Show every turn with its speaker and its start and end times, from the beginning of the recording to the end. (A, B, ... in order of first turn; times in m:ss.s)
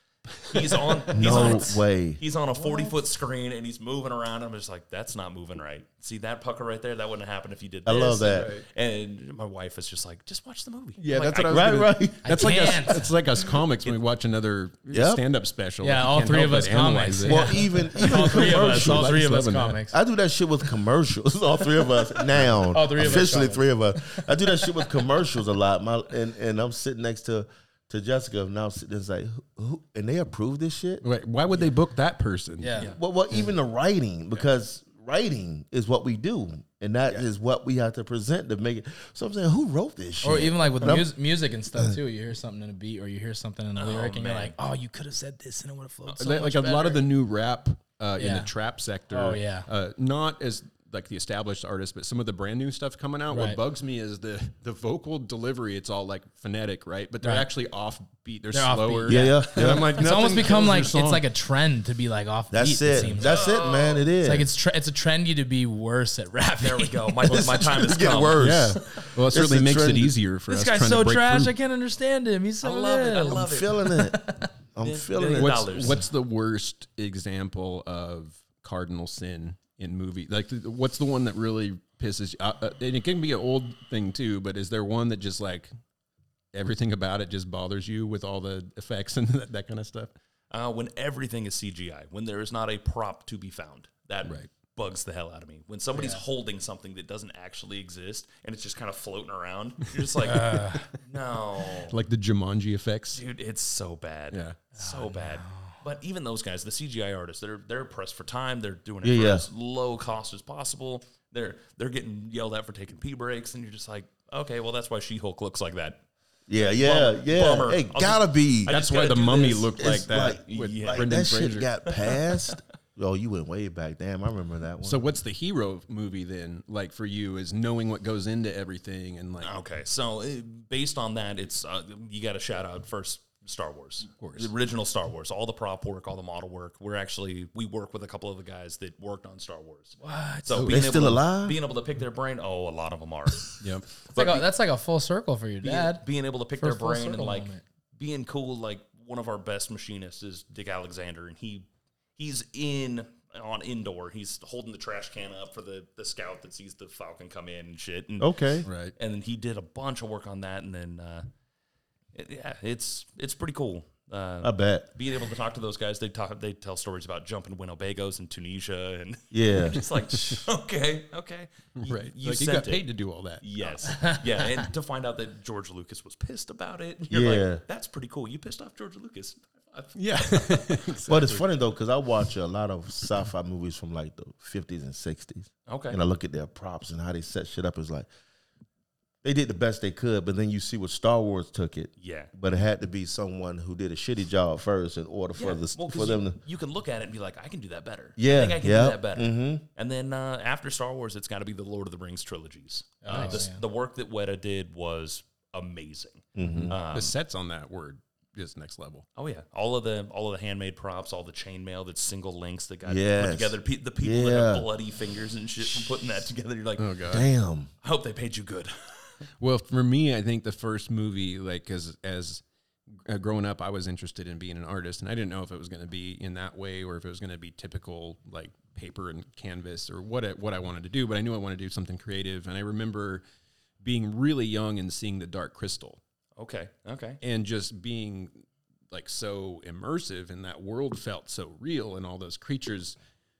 0:00.4-0:11.8 A
0:01.1-0:02.2 B
0:01.2-0:01.6 C
0:02.6-0:02.9 D
0:07.8-0:08.5 B
0:08.3-0:08.6 C
0:11.0-0:19.8 C
0:11.3-0:12.6 B
0:12.2-0:13.1 D
0:14.9-0:15.2 B
0:15.8-0:20.0 D
0:17.2-0:19.2 B
0:19.9-0:31.0 B
0:22.3-0:22.6 C
0:22.7-0:24.2 D
0:31.0-0:32.8 C
0:32.6-0:32.9 D
0:32.8-0:41.1 B
0:40.2-0:47.0 D
0:43.8-0:44.5 A
0:46.2-1:01.2 C
0:48.2-0:48.5 D
0:49.1-0:49.7 D
0:53.3-0:53.6 D
0:57.2-0:57.5 D
0:58.5-1:03.4 D
0:59.1-0:59.9 B
1:02.5-1:04.5 B
1:03.1-1:04.1 A
1:04.2-1:07.5 D
1:06.6-1:08.4 A
1:07.3-1:10.2 B
1:08.4-1:11.5 C
1:10.5-1:14.5 D
1:12.6-1:13.9 A
1:13.3-1:15.8 B
1:14.8-1:16.0 A
1:15.3-1:25.7 C
1:26.5-1:30.1 C
1:30.5-1:42.0 A
1:34.2-1:34.5 C
1:35.9-1:36.2 D
1:40.2-1:40.8 D
1:41.8-1:43.2 C
1:43.1-1:56.0 A
1:44.8-1:45.7 D
1:49.0-1:49.4 B
1:56.5-1:58.7 B
1:56.6-1:59.9 A
1:58.7-2:01.7 C
1:59.7-2:05.0 B
2:00.4-2:01.2 A
2:01.9-2:02.2 A
2:04.8-2:09.5 C
2:09.4-2:24.5 A
2:14.2-2:14.5 C
2:20.0-2:20.7 D
2:20.7-2:21.6 B
2:23.6-2:23.8 C
2:24.1-2:26.0 D
2:25.6-2:38.3 A
2:26.6-2:27.6 D
2:38.2-2:38.7 B
2:38.6-2:38.9 C
2:38.9-2:41.3 A
2:42.1-2:52.9 A
2:44.4-2:44.9 B
2:49.3-2:49.8 B
2:51.8-2:53.7 C
2:53.4-3:00.9 A
2:57.1-2:57.6 B
2:59.9-3:01.4 C
3:01.0-3:08.1 B
3:05.7-3:06.0 A
3:09.2-3:16.4 B
3:12.0-3:12.3 A
3:15.4-3:27.1 A
3:18.2-3:19.6 B
3:23.0-3:23.6 D
3:26.4-3:26.8 B
3:26.7-3:29.0 C
3:29.2-3:36.9 A
3:32.8-3:34.7 B
3:36.8-3:37.3 C
3:37.1-3:37.7 B
3:37.8-3:39.2 A
3:39.4-3:42.4 C
3:43.0-3:53.2 C
3:53.8-3:56.0 C
3:56.4-3:57.2 A
3:57.2-4:03.0 C